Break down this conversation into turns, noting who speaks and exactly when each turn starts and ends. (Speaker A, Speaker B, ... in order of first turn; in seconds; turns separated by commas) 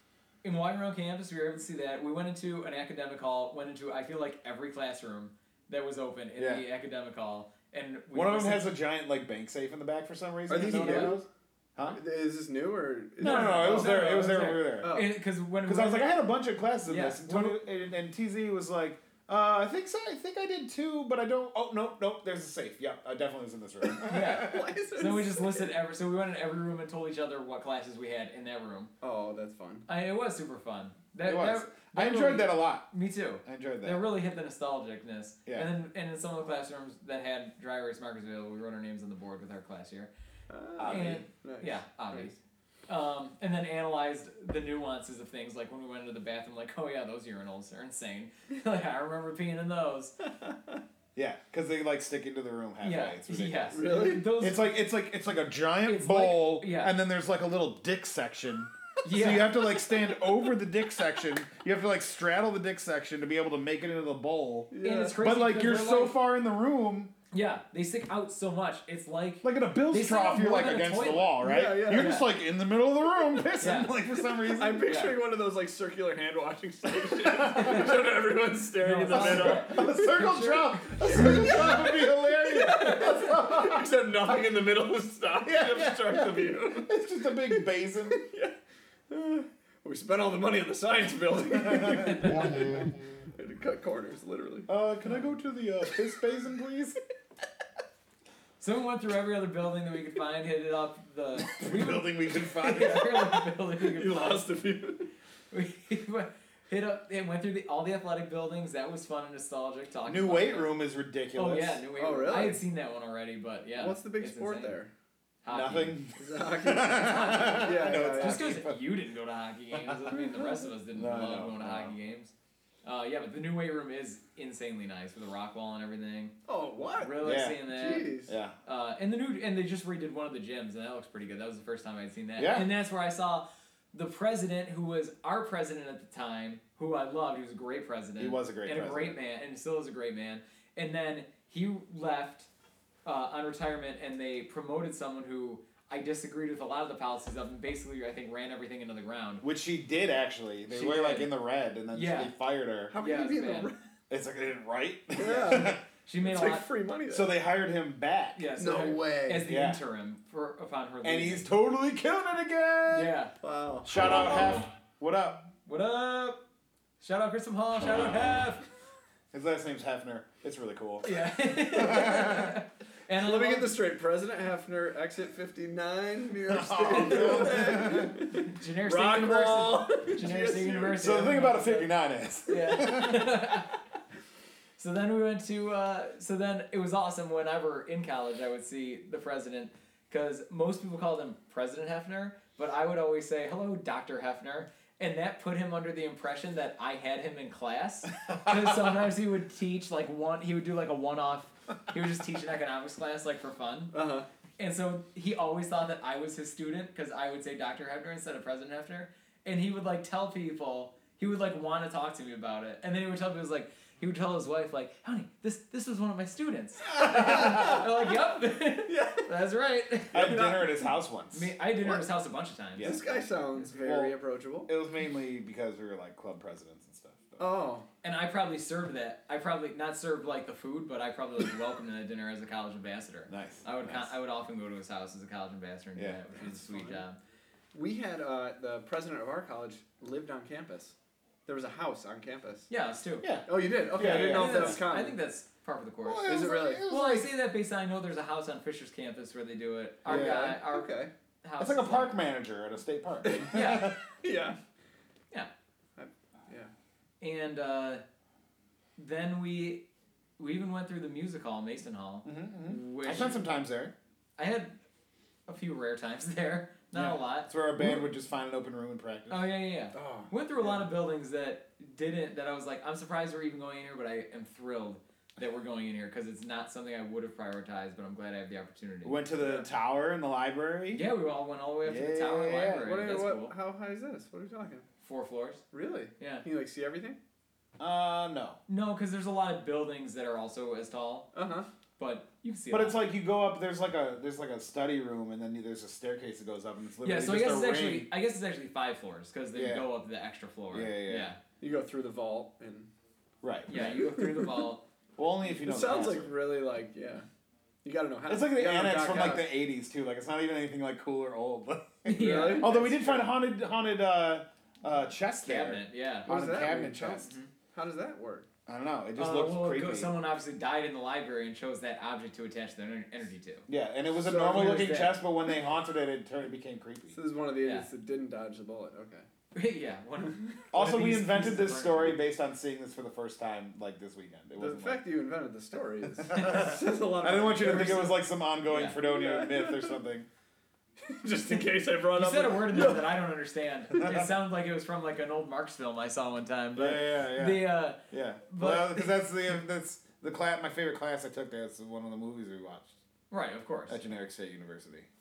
Speaker A: 0.4-8.7, Speaker B: 6.4-6.6, Speaker B: 8.1-12.0, Speaker C: 10.5-11.2, Speaker A: 10.6-11.2, Speaker C: 11.9-15.2, Speaker B: 13.2-15.0, Speaker A: 13.2-16.1, Speaker B: 15.7-24.7, Speaker A: 16.9-17.6, Speaker A: 24.1-28.9, Speaker C: 24.1-25.7, Speaker C: 29.0-29.9, Speaker A: 29.9-40.1, Speaker B: 31.2-32.9, Speaker B: 33.4-34.0, Speaker C: 40.5-42.4, Speaker B: 40.8-41.3, Speaker A: 40.9-42.4, Speaker A: 42.9-50.2, Speaker C: 50.5-50.7, Speaker B: 51.1-53.8, Speaker A: 52.8-54.7, Speaker C: 53.7-54.3, Speaker B: 54.4-67.1, Speaker A: 55.9-56.9, Speaker A: 59.0-59.7, Speaker C: 64.7-65.2, Speaker A: 64.8-66.2, Speaker A: 67.3-72.2, Speaker B: 69.4-74.8, Speaker C: 71.4-72.2, Speaker A: 73.6-73.9, Speaker C: 74.3-80.3, Speaker A: 74.9-75.2, Speaker B: 77.2-77.9, Speaker A: 77.5-77.9, Speaker A: 78.8-80.8, Speaker B: 79.1-83.9, Speaker C: 81.0-88.5, Speaker B: 85.4-88.2, Speaker C: 89.1-94.7, Speaker B: 91.8-92.2, Speaker B: 94.7-97.0, Speaker A: 98.6-104.5, Speaker B: 101.5-103.3, Speaker C: 103.8-105.1, Speaker A: 105.5-110.7, Speaker B: 110.1-111.8, Speaker A: 111.3-114.8, Speaker C: 112.0-112.6, Speaker C: 113.8-114.9, Speaker A: 115.4-116.0, Speaker B: 115.5-118.8, Speaker C: 116.2-118.6, Speaker A: 116.9-122.3, Speaker B: 121.0-121.9, Speaker A: 122.8-126.4, Speaker C: 126.5-128.3, Speaker A: 127.0-128.1, Speaker B: 127.2-127.6, Speaker B: 128.3-128.6, Speaker A: 128.7-142.5, Speaker B: 132.4-132.7, Speaker B: 138.2-139.2, Speaker A: 143.1-149.4, Speaker B: 149.4-152.9, Speaker A: 150.7-151.3, Speaker A: 151.9-152.3, Speaker C: 152.9-153.8, Speaker A: 152.9-153.7, Speaker B: 154.1-155.8, Speaker C: 155.2-157.3, Speaker A: 156.1-156.7, Speaker B: 157.1-158.4, Speaker A: 158.4-161.5, Speaker C: 158.6-159.5, Speaker B: 159.4-159.8, Speaker B: 161.0-163.1, Speaker A: 162.9-163.3, Speaker C: 163.4-163.9, Speaker B: 163.8-165.5, Speaker A: 164.0-164.7, Speaker A: 165.7-166.4, Speaker A: 167.0-168.6, Speaker B: 169.3-172.6, Speaker A: 171.0-173.8, Speaker C: 173.2-181.1, Speaker B: 176.5-178.2, Speaker A: 176.9-181.9, Speaker B: 181.0-183.5, Speaker A: 182.5-183.7, Speaker A: 184.8-203.9, Speaker C: 203.9-204.3, Speaker A: 204.6-220.6, Speaker C: 217.0-217.9, Speaker C: 218.9-219.3, Speaker B: 220.1-222.0, Speaker C: 220.2-220.7, Speaker A: 221.3-223.0, Speaker B: 222.8-224.2, Speaker C: 222.8-224.7, Speaker B: 224.7-227.4, Speaker C: 227.4-227.9, Speaker A: 228.0-237.2, Speaker B: 233.3-234.1, Speaker C: 236.4-237.0, Speaker C: 237.7-240.9, Speaker C: 241.5-242.7, Speaker A: 242.7-243.3, Speaker B: 243.2-244.8, Speaker C: 243.5-245.2, Speaker A: 244.0-250.9, Speaker B: 246.0-247.3, Speaker C: 246.2-246.8, Speaker C: 250.1-251.1, Speaker B: 250.1-250.6, Speaker A: 251.4-252.2, Speaker B: 251.6-253.9, Speaker C: 253.2-254.6, Speaker A: 253.5-253.9, Speaker C: 256.0-256.7, Speaker A: 257.2-258.0, Speaker A: 259.0-259.9, Speaker A: 260.4-263.4, Speaker B: 262.2-263.9, Speaker A: 264.4-264.8, Speaker A: 265.5-268.0, Speaker B: 266.9-269.5, Speaker A: 269.3-279.6, Speaker C: 269.9-270.8, Speaker B: 279.0-281.1, Speaker A: 280.9-283.5, Speaker B: 281.8-282.9, Speaker C: 282.8-284.9, Speaker A: 285.0-285.6, Speaker C: 285.7-287.2, Speaker A: 286.2-286.4, Speaker B: 287.8-288.6, Speaker A: 288.7-291.3, Speaker C: 291.3-291.7, Speaker A: 292.0-293.0, Speaker B: 292.7-298.1, Speaker A: 297.0-301.4, Speaker B: 299.5-299.9, Speaker B: 300.7-301.3, Speaker C: 301.6-302.9, Speaker B: 303.4-304.0, Speaker A: 303.7-304.8, Speaker C: 303.7-304.7, Speaker B: 305.2-306.3, Speaker C: 305.5-307.3, Speaker C: 307.8-309.5, Speaker B: 308.3-317.3, Speaker A: 312.1-312.8, Speaker C: 312.1-313.3, Speaker A: 315.4-316.3, Speaker C: 316.2-318.5, Speaker A: 317.2-317.5, Speaker B: 318.7-320.1, Speaker A: 319.2-323.7, Speaker B: 323.7-327.2, Speaker C: 324.2-324.8, Speaker A: 324.3-325.2, Speaker C: 327.1-329.3, Speaker A: 329.5-332.2, Speaker B: 330.7-335.0, Speaker C: 334.6-338.2, Speaker B: 336.2-340.3, Speaker A: 336.3-336.8, Speaker A: 338.7-339.0, Speaker C: 339.0-339.9, Speaker C: 341.0-343.2, Speaker A: 342.1-349.2, Speaker B: 346.8-352.9, Speaker A: 353.3-354.0, Speaker B: 353.9-355.1